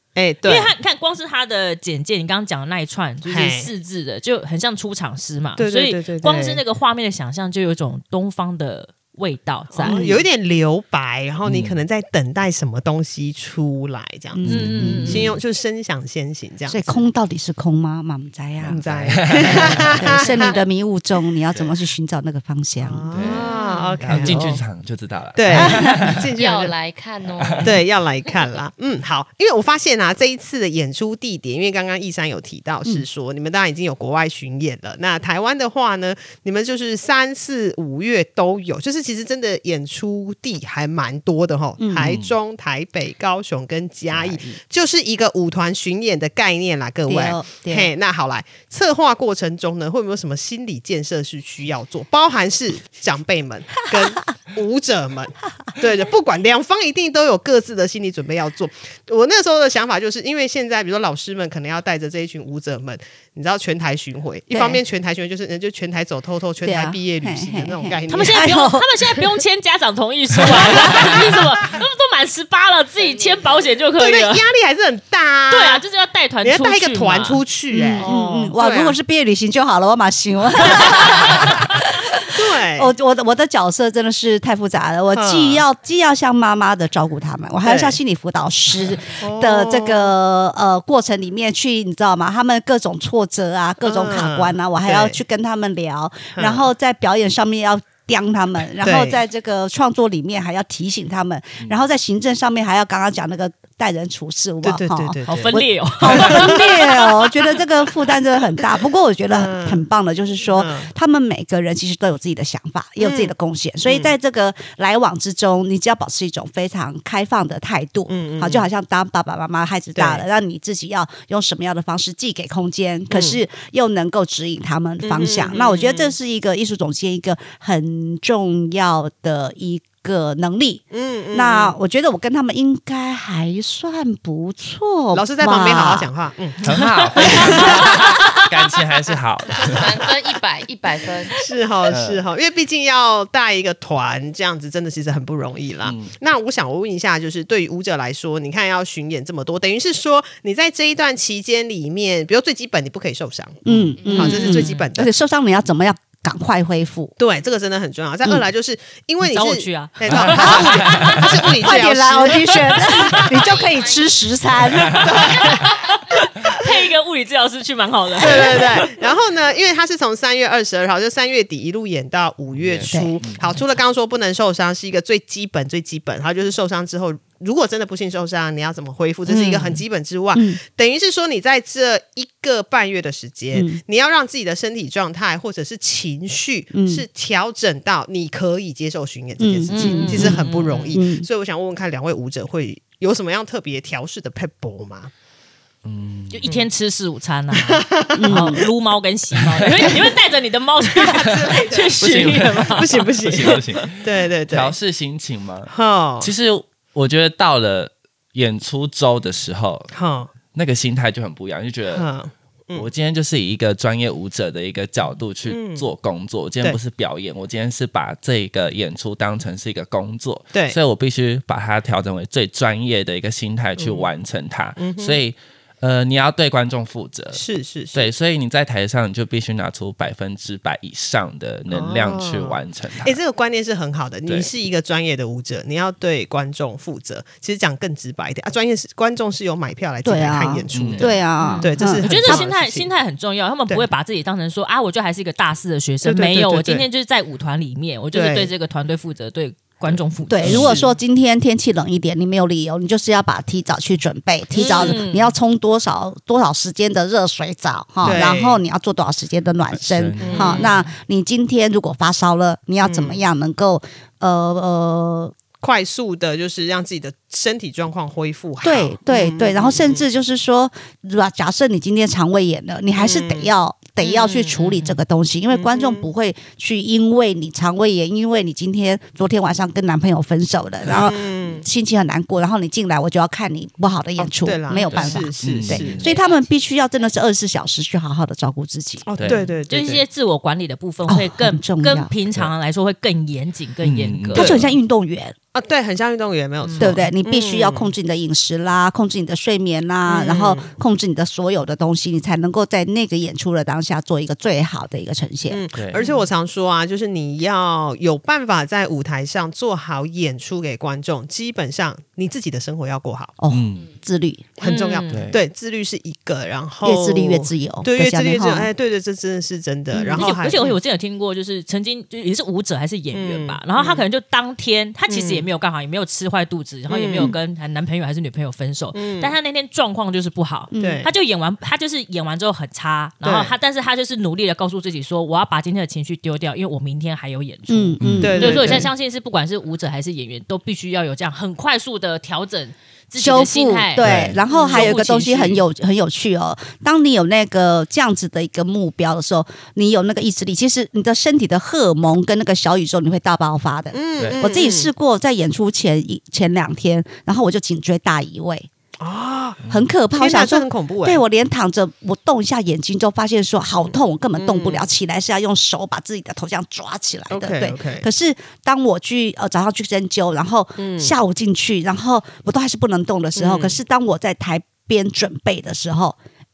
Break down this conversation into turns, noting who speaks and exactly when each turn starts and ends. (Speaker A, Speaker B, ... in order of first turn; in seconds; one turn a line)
Speaker A: 0.1-0.7
Speaker B: 0.4-10.1
Speaker A: 3.2-3.7
Speaker A: 5.6-6.6
Speaker A: 9.8-17.1
Speaker C: 9.8-10.2
Speaker D: 11.4-11.8
Speaker C: 14.3-15.3
Speaker B: 14.5-15.3
Speaker C: 16.7-23.1
Speaker A: 18.6-20.6
Speaker D: 18.8-20.2
Speaker A: 22.8-24.6
Speaker D: 23.1-23.5
Speaker E: 23.2-24.0
Speaker D: 24.0-26.3
Speaker A: 25.3-26.7
Speaker C: 25.5-26.0
Speaker E: 26.4-27.8
Speaker D: 27.4-27.8
Speaker A: 27.6-68.5
Speaker C: 41.8-42.1
Speaker D: 42.0-42.3
Speaker D: 44.2-44.5
Speaker C: 47.1-47.9
Speaker C: 64.5-64.8
Speaker C: 66.6-68.9
Speaker B: 68.1-74.5
Speaker A: 70.7-71.1
Speaker E: 73.0-73.7
Speaker A: 74.0-75.8
Speaker B: 75.5-77.4
Speaker A: 76.4-79.0
Speaker C: 77.7-82.2
Speaker A: 80.9-81.4
Speaker A: 82.3-82.9
Speaker C: 82.7-136.1
Speaker A: 85.1-85.6
Speaker A: 87.6-88.0
Speaker A: 89.2-90.1
Speaker A: 93.8-95.2
Speaker A: 96.3-96.7
Speaker A: 98.8-99.2
Speaker A: 104.6-106.6
Speaker B: 105.3-107.3
Speaker A: 109.3-109.8
Speaker A: 110.5-110.9
Speaker A: 113.0-113.3
Speaker A: 113.8-114.1
Speaker A: 118.1-118.7
Speaker A: 120.0-120.2
Speaker A: 123.1-123.4
Speaker A: 125.0-126.1
Speaker A: 130.9-131.8
Speaker A: 135.1-138.0
Speaker D: 136.6-139.9
Speaker E: 139.6-141.4
Speaker A: 141.3-155.1
Speaker D: 141.9-142.2
Speaker D: 145.8-146.1
Speaker C: 153.6-157.1
Speaker E: 154.0-154.5
Speaker B: 154.2-154.8
Speaker A: 157.2-163.0
Speaker B: 159.2-161.3
Speaker D: 160.1-161.3
Speaker C: 160.3-165.2
Speaker E: 163.3-164.3
Speaker D: 164.7-165.1
Speaker A: 165.0-165.6
Speaker B: 165.2-168.9
Speaker A: 168.2-195.1
Speaker D: 172.6-173.6
Speaker C: 179.3-179.8
Speaker C: 180.3-180.6
Speaker C: 183.5-183.8
Speaker C: 186.7-187.0
Speaker C: 189.4-191.3
Speaker B: 189.7-191.0
Speaker D: 195.8-196.6
Speaker B: 196.3-203.1
Speaker A: 197.6-198.6
Speaker C: 198.2-198.6
Speaker D: 199.4-199.9
Speaker A: 201.0-201.9
Speaker D: 201.2-209.9
Speaker A: 202.7-204.7
Speaker A: 205.7-206.3
Speaker A: 209.9-210.3
Speaker D: 210.5-212.1
Speaker A: 211.9-212.9
Speaker D: 212.7-233.2
Speaker A: 215.5-215.8
Speaker A: 223.8-224.1
Speaker A: 224.8-225.2
Speaker A: 227.3-228.1
Speaker A: 231.7-242.9
Speaker C: 240.0-242.4
Speaker D: 240.7-241.2
Speaker B: 241.4-250.7
Speaker A: 246.0-246.8
Speaker A: 248.1-248.5
Speaker D: 249.8-250.8
Speaker C: 250.3-265.3
Speaker A: 250.4-250.9
Speaker B: 254.5-255.3
Speaker A: 254.6-254.9
Speaker A: 258.0-258.6
Speaker D: 259.7-260.9
Speaker A: 260.2-260.7
Speaker A: 262.8-263.2
Speaker A: 265.6-270.0
Speaker C: 268.6-289.1
Speaker A: 272.9-273.5
Speaker B: 274.1-275.0
Speaker A: 275.5-276.1
Speaker A: 280.9-281.6
Speaker A: 284.2-286.0
Speaker D: 284.9-286.1
Speaker E: 286.1-286.5
Speaker A: 289.1-290.0
Speaker D: 289.1-289.5
Speaker B: 289.7-294.5
Speaker C: 291.1-292.1
Speaker D: 293.8-294.7
Speaker C: 294.3-295.4
Speaker A: 295.5-297.9
Speaker B: 296.6-296.9
Speaker C: 296.8-305.6
Speaker A: 300.1-300.7
Speaker A: 305.5-313.3
Speaker D: 305.7-306.0
Speaker B: 306.0-306.2
Speaker C: 313.4-314.6
Speaker D: 313.5-313.9
Speaker A: 314.6-320.8
Speaker B: 314.6-315.2
Speaker D: 315.1-315.4
Speaker C: 316.8-318.7
Speaker C: 319.9-320.3
Speaker B: 320.1-345.6
Speaker A: 323.1-324.0
Speaker A: 325.1-325.5
Speaker A: 326.9-327.3
Speaker A: 328.9-329.3
Speaker C: 330.7-331.0
Speaker A: 330.8-331.1
Speaker A: 333.2-333.5
Speaker C: 337.7-338.9
Speaker D: 338.0-338.7
Speaker A: 338.2-338.9
Speaker C: 343.2-358.7
Speaker D: 344.0-344.4
Speaker A: 344.5-344.9
Speaker A: 353.9-354.9
Speaker A: 359.0-359.6
Speaker D: 359.6-359.9
Speaker C: 359.7-376.2
Speaker A: 360.1-361.2
Speaker A: 364.4-364.9
Speaker A: 367.3-368.1
Speaker A: 370.8-371.1
Speaker A: 373.4-373.8